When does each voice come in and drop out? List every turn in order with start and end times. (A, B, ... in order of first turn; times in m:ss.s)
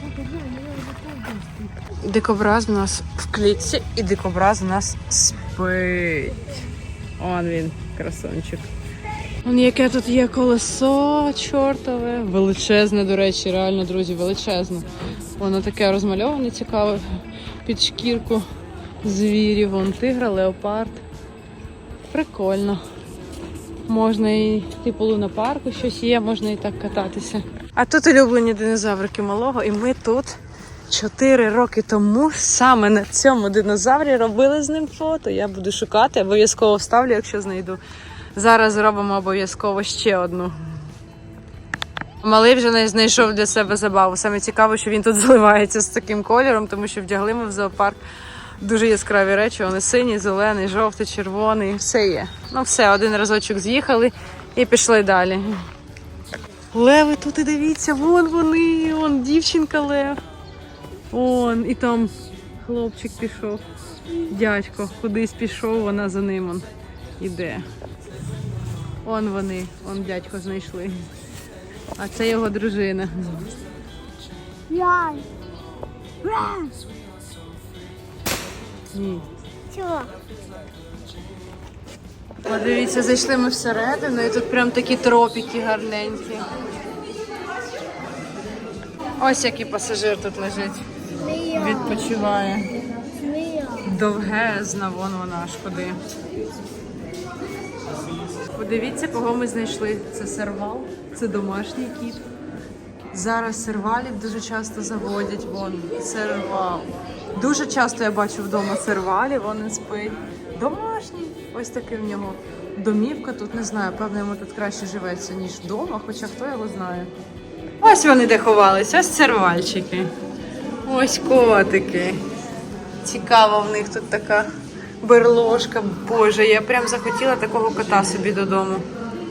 0:00.3-0:01.4 A
0:01.9-0:06.6 B
0:07.2-0:08.7 B
0:09.4-0:18.4 B
0:19.0-0:21.0 B
0:22.1-0:22.8 B
0:23.9-0:37.8 B
0:38.3-0:40.5 B
0:42.2-0:48.0 B
0:48.6-0:55.6 B
0:56.7-1:00.2 B
1:01.1-1:03.6 B
1:04.2-1:06.6 B
1:07.2-1:07.6 B
1:09.0-1:11.1 B
1:12.0-1:13.5 B
1:14.7-1:15.3 A
1:16.2-1:16.7 A
1:18.9-1:19.2 B
1:19.7-1:20.1 A
1:22.4-1:26.5 B
1:29.2-1:30.8 B
1:31.2-1:31.7 A
1:31.4-1:32.7 B
1:33.1-1:33.8 A
1:33.8-1:36.0 B
1:38.5-1:42.2 B
1:43.1-1:57.1 B
1:57.8-2:00.1 B
2:00.8-2:02.2 B
2:03.0-2:04.5 B
2:05.0-2:08.8 B